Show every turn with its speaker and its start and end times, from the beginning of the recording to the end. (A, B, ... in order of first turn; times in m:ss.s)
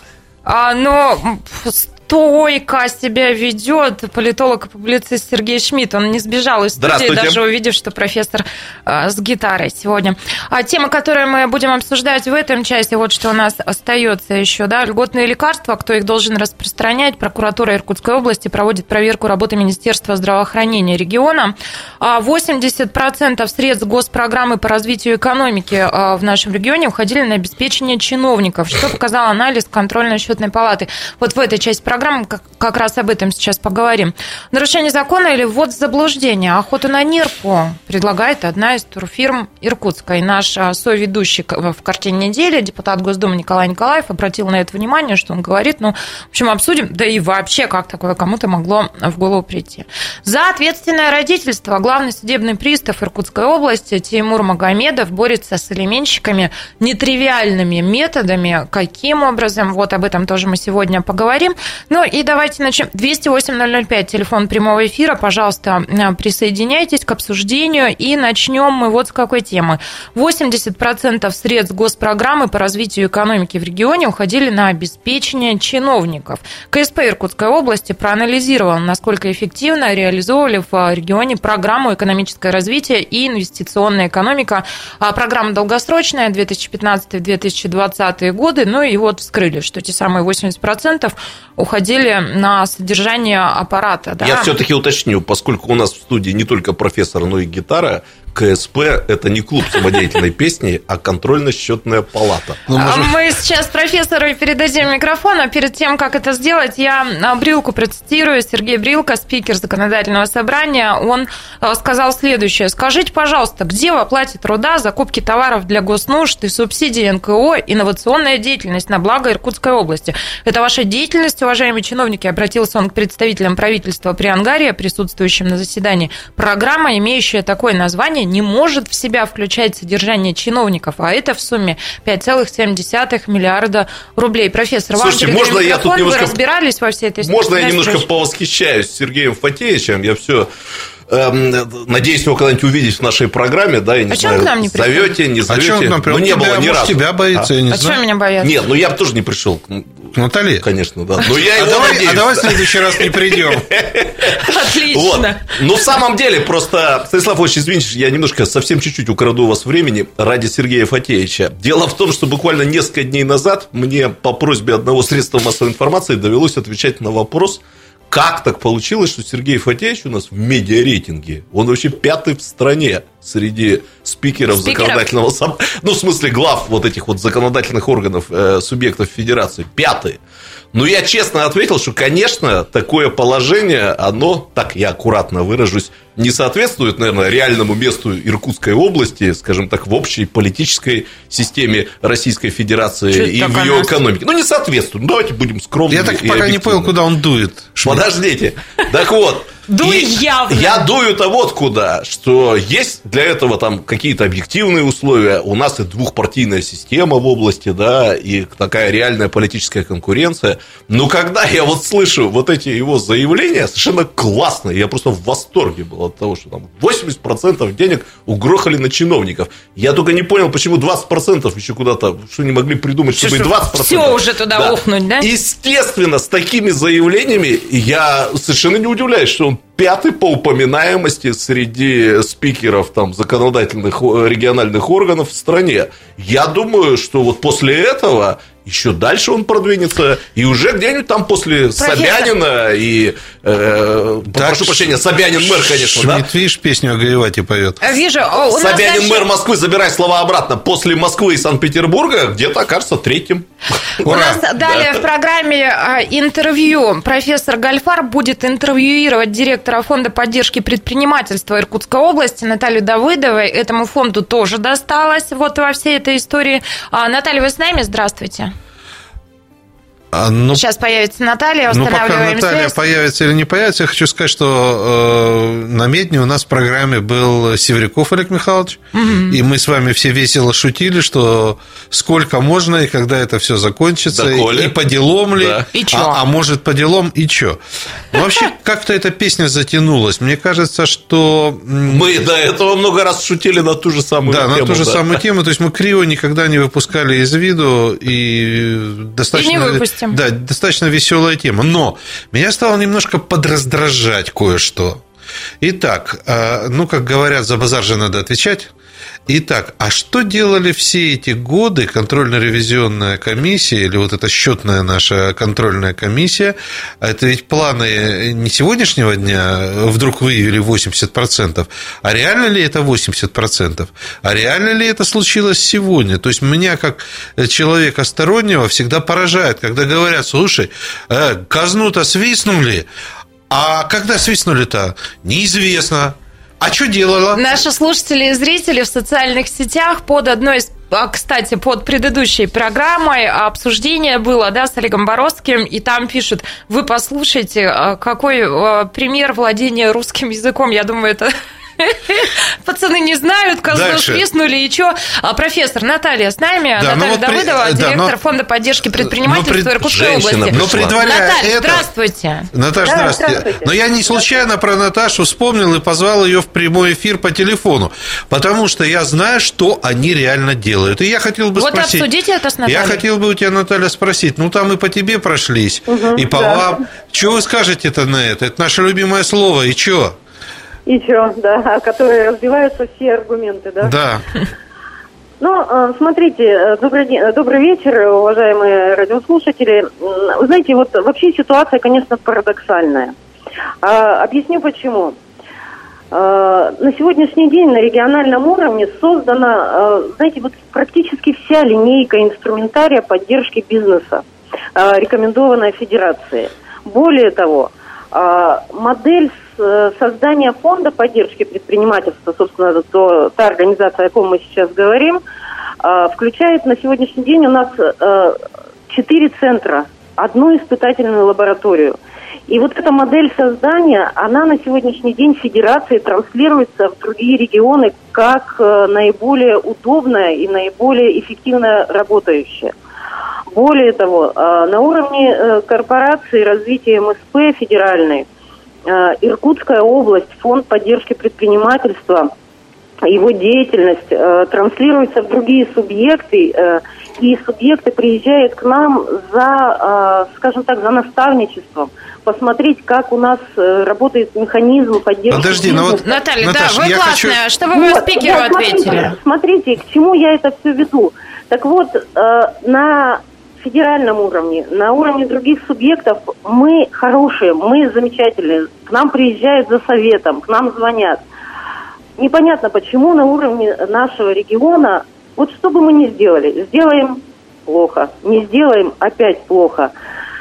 0:00.4-1:34.5 A
0:06.8-0:07.4 B
1:34.2-1:42.9 B
1:42.7-1:43.1 C
1:42.7-2:18.0 A
2:15.0-2:16.4 B
2:17.2-2:20.5 B
2:21.1-2:27.5 B
2:24.1-2:25.2 A
2:25.5-2:28.0 C
2:27.7-2:28.5 A
2:28.4-3:00.2 B
2:30.1-2:30.6 C
2:31.2-2:33.7 C
2:34.4-2:35.4 A
2:54.5-2:55.0 A
3:00.7-3:16.9 B
3:13.1-3:14.0 A
3:15.9-3:18.1 C
3:17.8-4:06.3 B
3:19.7-3:20.9 A
3:43.2-3:45.3 A
4:01.8-4:02.3 A
4:04.4-4:07.8 C
4:07.8-4:09.3 A
4:08.5-4:14.9 B
4:14.0-4:28.5 A
4:14.0-4:14.4 C
4:30.1-4:30.6 C
4:30.5-4:32.8 A
4:31.7-4:47.6 C
4:38.9-4:39.4 A
4:44.1-4:44.8 B
4:45.3-4:45.6 B
4:45.7-4:46.2 A
4:48.1-4:52.1 C
4:51.9-4:55.2 B
4:54.3-5:05.0 C
4:59.3-5:00.2 A
5:05.6-5:08.7 C
5:09.3-5:32.9 C
5:33.5-5:37.5 C
5:37.3-6:02.5 A
5:53.7-5:54.2 C
5:56.8-5:58.2 C
5:59.0-5:59.8 C
5:59.8-6:01.0 B
6:00.5-6:01.9 C
6:02.5-6:12.1 C
6:02.8-6:04.4 D
6:11.6-6:13.0 A
6:12.7-6:20.2 C
6:15.9-6:16.8 D
6:20.9-6:23.9 D
6:23.8-6:24.3 C
6:25.4-6:33.1 D
6:33.8-6:35.2 D
6:36.1-6:44.2 D
6:44.8-6:55.2 D
6:55.8-7:12.7 D
7:13.5-7:18.3 D
7:18.9-7:22.3 D
7:23.1-7:36.1 D
7:35.3-7:37.4 C
7:35.9-7:39.2 A
7:37.7-7:51.2 D
7:52.2-7:59.9 D